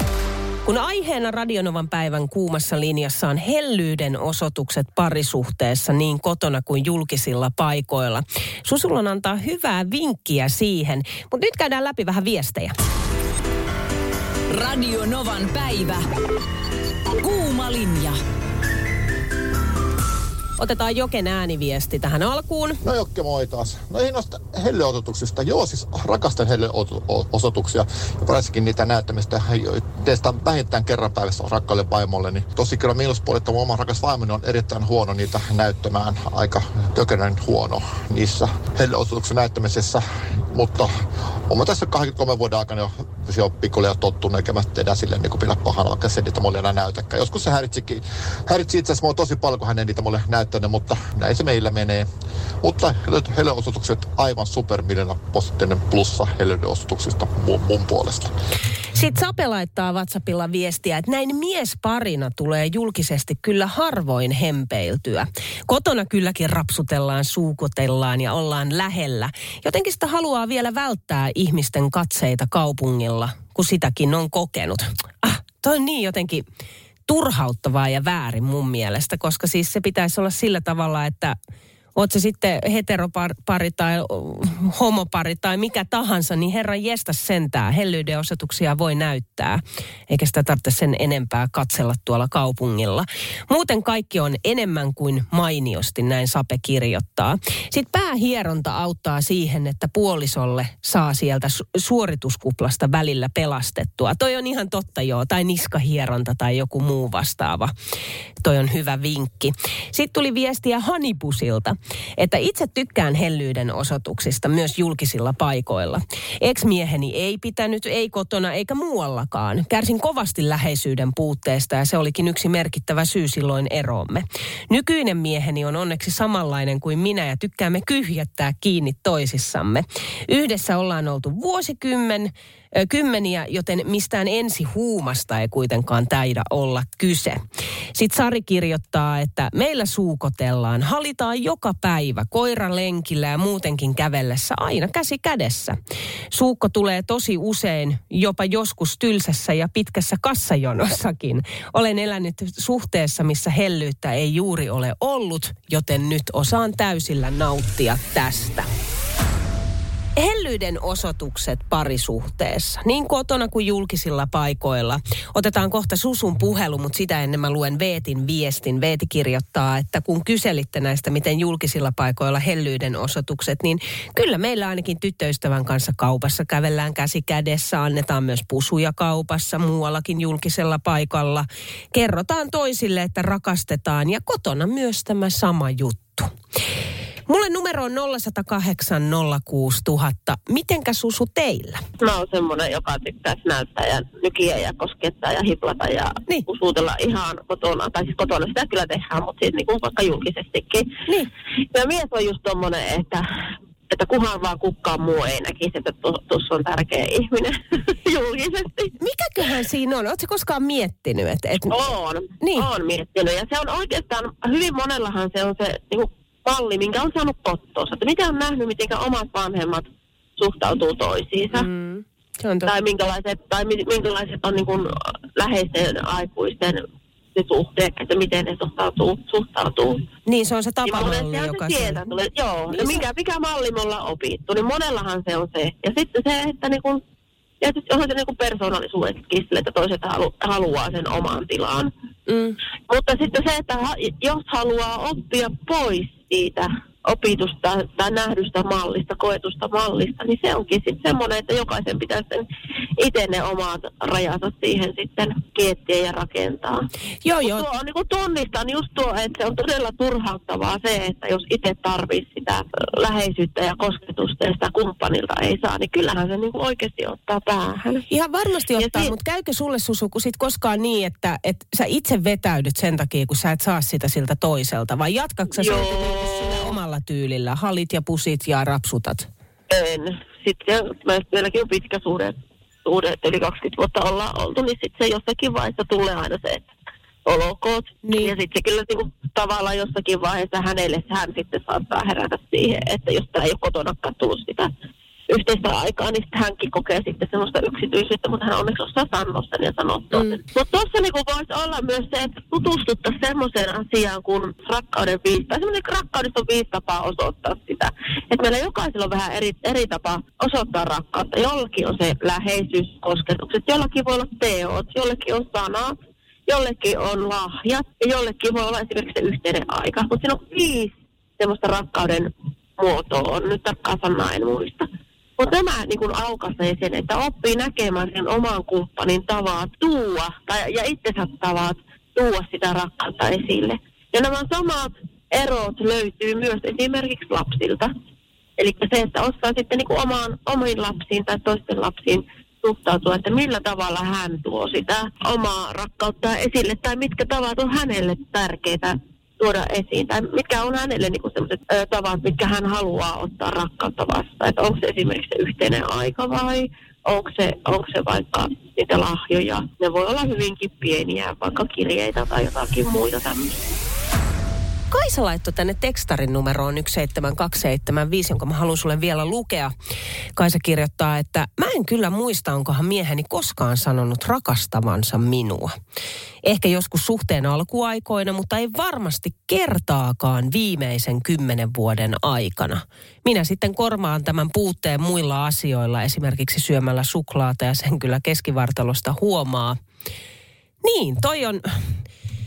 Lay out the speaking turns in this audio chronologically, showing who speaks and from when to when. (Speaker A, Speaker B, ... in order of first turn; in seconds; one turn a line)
Speaker A: 0.6-12.7
Speaker B: 14.5-16.0
Speaker B: 17.2-18.2
Speaker A: 20.6-22.8
Speaker C: 22.8-40.9
Speaker C: 41.5-52.0
Speaker C: 52.6-58.3
Speaker A: 58.9-76.4
Speaker A: 77.1-81.4
Speaker A: 82.0-107.7
Speaker A: 108.4-137.4
Speaker A: 137.9-145.8
Speaker A: 146.3-158.7
Speaker A: 160.2-186.3
Speaker A: 187.3-191.8
Speaker D: 192.0-200.9
Speaker D: 201.7-203.2
Speaker D: 203.9-208.9
Speaker A: 209.0-211.9
Speaker D: 211.7-219.8
Speaker A: 212.4-212.7
Speaker D: 220.4-221.7
Speaker A: 221.5-222.7
Speaker D: 222.7-230.0
Speaker A: 230.2-232.0
Speaker D: 230.8-237.0
Speaker A: 232.7-233.0
Speaker D: 237.6-241.9
Speaker A: 242.3-242.6
Speaker D: 242.9-252.4
Speaker D: 253.0-256.9
Speaker A: 257.2-257.6
Speaker D: 257.4-268.0
Speaker A: 268.1-279.3
Speaker D: 268.8-269.1
Speaker D: 275.6-276.2
Speaker D: 279.7-286.6
Speaker D: 287.2-294.7
Speaker A: 288.0-288.3
Speaker D: 295.3-315.9
Speaker A: 300.1-300.4
Speaker D: 316.5-324.9
Speaker D: 325.4-337.9
Speaker D: 338.6-363.6
Speaker A: 364.9-369.7
Speaker A: 370.4-375.7
Speaker A: 376.4-389.8
Speaker A: 390.8-391.6